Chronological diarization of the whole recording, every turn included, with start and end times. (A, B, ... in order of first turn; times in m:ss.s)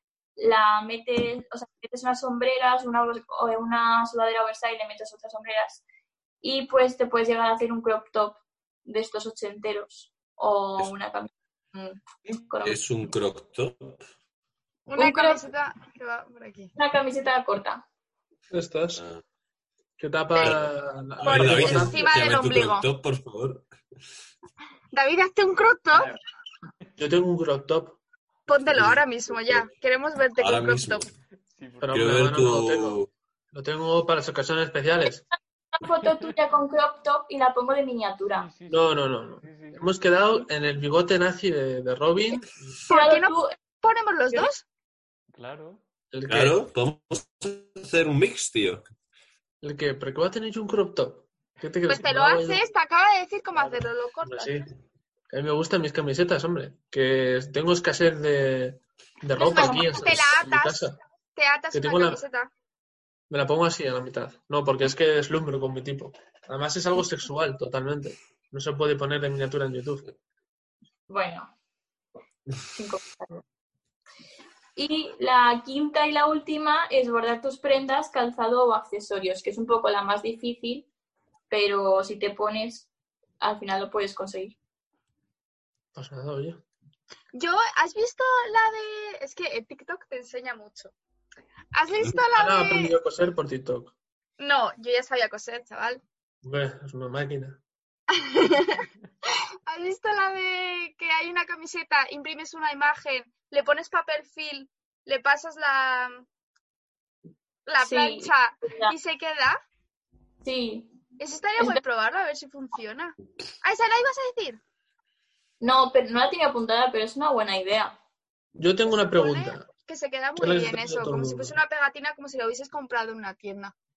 0:00.4-0:05.8 A
0:06.4-0:12.8 A
0:12.6-0:14.0 B
0:14.9-0:16.7 C
0:15.0-0:15.4 A
0:16.8-0:17.8 A
0:18.5-0:19.0 D
0:19.0-0:19.2 B
0:20.0-0:22.2 D
0:20.4-0:20.7 B
0:21.2-0:23.6 B
0:21.2-0:22.8 C
0:24.9-0:26.1 C
0:27.0-0:28.0 D
0:28.5-0:31.0 C
0:28.7-0:29.7 B
0:30.4-0:31.1 B
0:31.5-0:32.3 E
0:31.8-0:33.0 D
0:31.9-0:33.1 B
0:33.5-0:35.2 D
0:35.7-0:38.5 A
0:38.3-0:39.8 E
0:38.7-0:42.4 D
0:42.9-0:43.5 A
0:42.9-0:44.6 C
0:45.3-0:45.8 E
0:46.1-0:46.6 D
0:46.3-0:48.8 B
0:49.6-0:52.6 D
0:51.9-0:54.7 C
0:53.6-0:54.6 D
0:55.3-1:01.0 D
0:59.4-1:02.5 C
0:59.4-1:00.2 A
1:01.7-1:02.2 D
1:03.3-1:10.1 D
1:11.1-1:11.5 A
1:12.7-1:13.4 A
1:14.8-1:20.9 A
1:21.5-1:22.9 A
1:23.4-1:24.6 A
1:26.0-1:26.6 D
1:27.4-1:30.9 C
1:31.7-1:33.0 C
1:32.1-1:33.9 D
1:34.4-1:36.0 C
1:36.4-1:37.6 D
1:38.1-1:38.8 C
1:39.7-1:46.2 C
1:47.7-1:49.6 C
1:47.8-1:49.0 A
1:50.4-1:50.9 A
1:51.2-1:54.6 C
1:55.6-1:58.0 A
1:58.6-1:59.7 D
1:59.2-2:03.7 C
2:00.4-2:01.6 D